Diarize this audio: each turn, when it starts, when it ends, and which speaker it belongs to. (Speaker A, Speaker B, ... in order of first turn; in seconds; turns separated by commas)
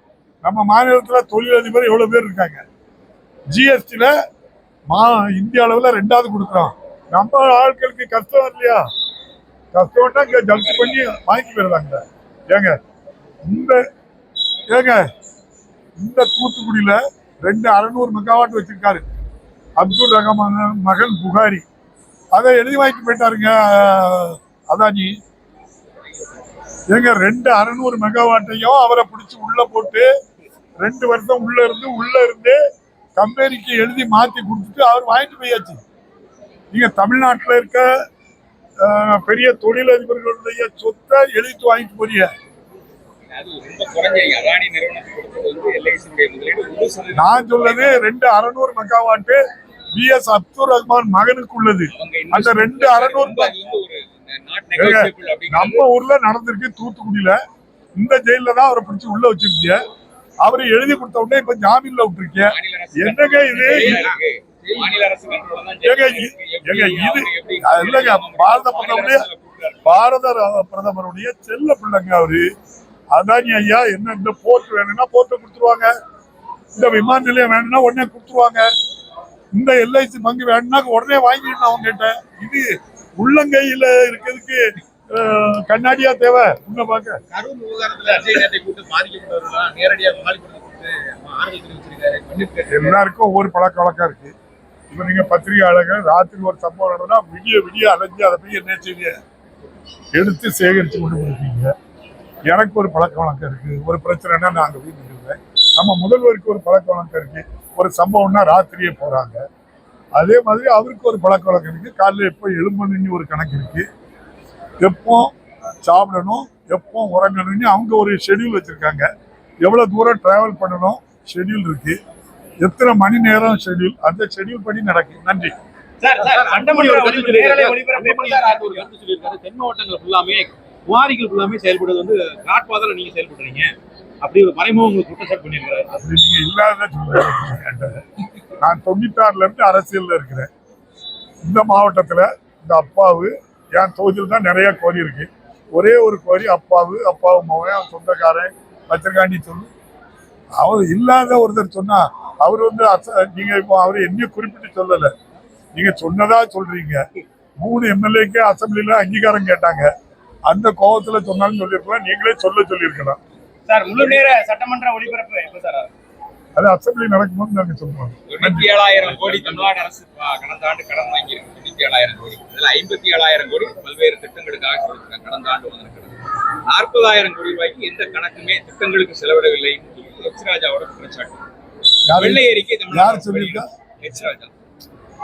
Speaker A: 0.4-2.6, Speaker A: 3.5-4.1, Speaker A: 4.9-8.8, Speaker A: 9.7-12.8, Speaker B: 10.3-11.0, Speaker A: 13.4-13.8, Speaker A: 14.7-15.0, Speaker A: 16.0-19.0, Speaker A: 19.8-21.6, Speaker A: 22.3-25.2, Speaker A: 26.9-30.1, Speaker A: 30.8-32.6, Speaker A: 33.2-35.8, Speaker A: 36.7-37.9, Speaker A: 38.8-42.3, Speaker B: 43.3-48.0, Speaker A: 47.1-49.4, Speaker A: 49.9-53.5, Speaker B: 51.9-55.9, Speaker A: 54.8-57.4, Speaker A: 58.0-59.8, Speaker A: 60.4-64.1, Speaker B: 62.4-70.0, Speaker C: 63.7-64.1, Speaker A: 65.8-69.2, Speaker A: 69.8-72.4, Speaker A: 73.1-75.9, Speaker A: 76.7-78.7, Speaker A: 79.5-87.2, Speaker C: 87.3-93.0, Speaker A: 92.7-94.3, Speaker A: 94.9-99.1, Speaker A: 100.1-101.7, Speaker A: 102.5-109.4, Speaker A: 110.2-113.9, Speaker A: 114.8-119.1, Speaker A: 119.6-122.0, Speaker A: 122.6-125.5, Speaker D: 126.0-128.8, Speaker C: 126.2-135.9, Speaker A: 135.9-138.0, Speaker A: 138.6-140.5, Speaker A: 141.4-149.7, Speaker A: 150.6-155.1, Speaker A: 155.7-157.0, Speaker A: 157.6-159.9, Speaker A: 160.5-163.2, Speaker D: 163.7-165.9, Speaker A: 166.6-168.7, Speaker B: 168.3-181.4, Speaker D: 169.2-169.7, Speaker A: 182.1-183.7, Speaker B: 182.1-184.5